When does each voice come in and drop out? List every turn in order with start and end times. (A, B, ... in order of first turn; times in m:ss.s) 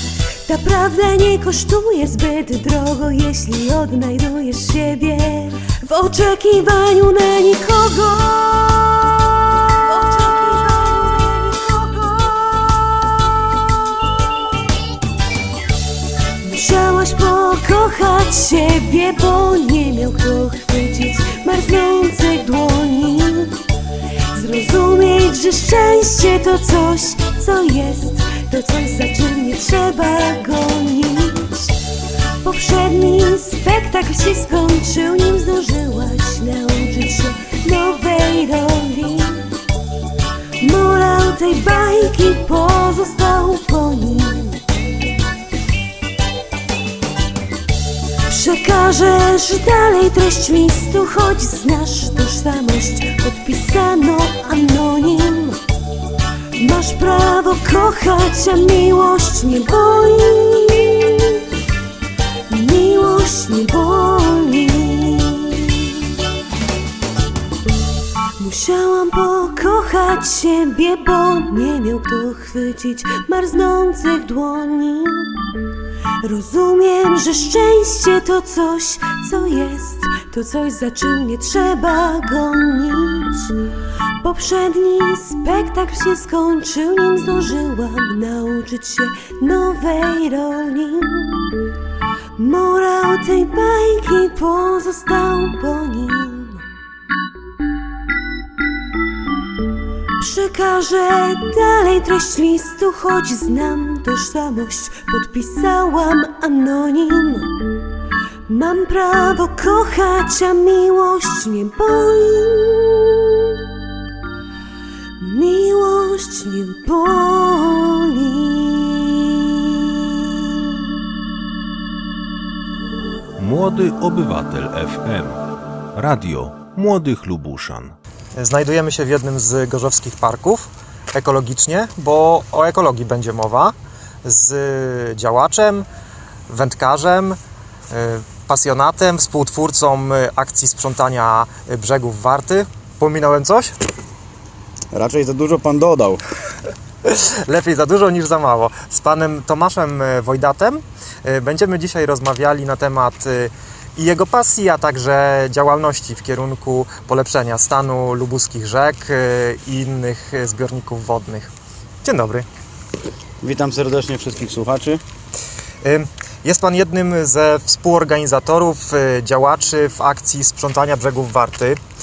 0:00.5-0:13.6 A
0:16.4-0:23.6 A
0:24.3-0:31.8 A
0:32.4-0:39.5 A
0:40.6-0:44.6 A
0:48.3-0:55.6 A
0:56.6-1:01.4 A
1:02.5-1:06.0 A
1:08.4-1:15.4 A
1:16.2-1:23.5 A
1:24.2-1:31.4 A
1:32.4-1:36.6 A
1:40.2-1:47.5 A
1:48.5-1:53.5 A
1:55.2-1:59.5 A
2:03.4-2:05.4 B
2:06.0-2:08.0 B
2:08.4-2:15.9 C
2:16.5-2:17.4 C
2:17.9-2:23.7 C
2:24.9-2:26.2 D
2:27.0-2:41.5 C
2:42.0-2:42.5 C
2:43.4-2:45.0 D
2:45.8-2:51.8 C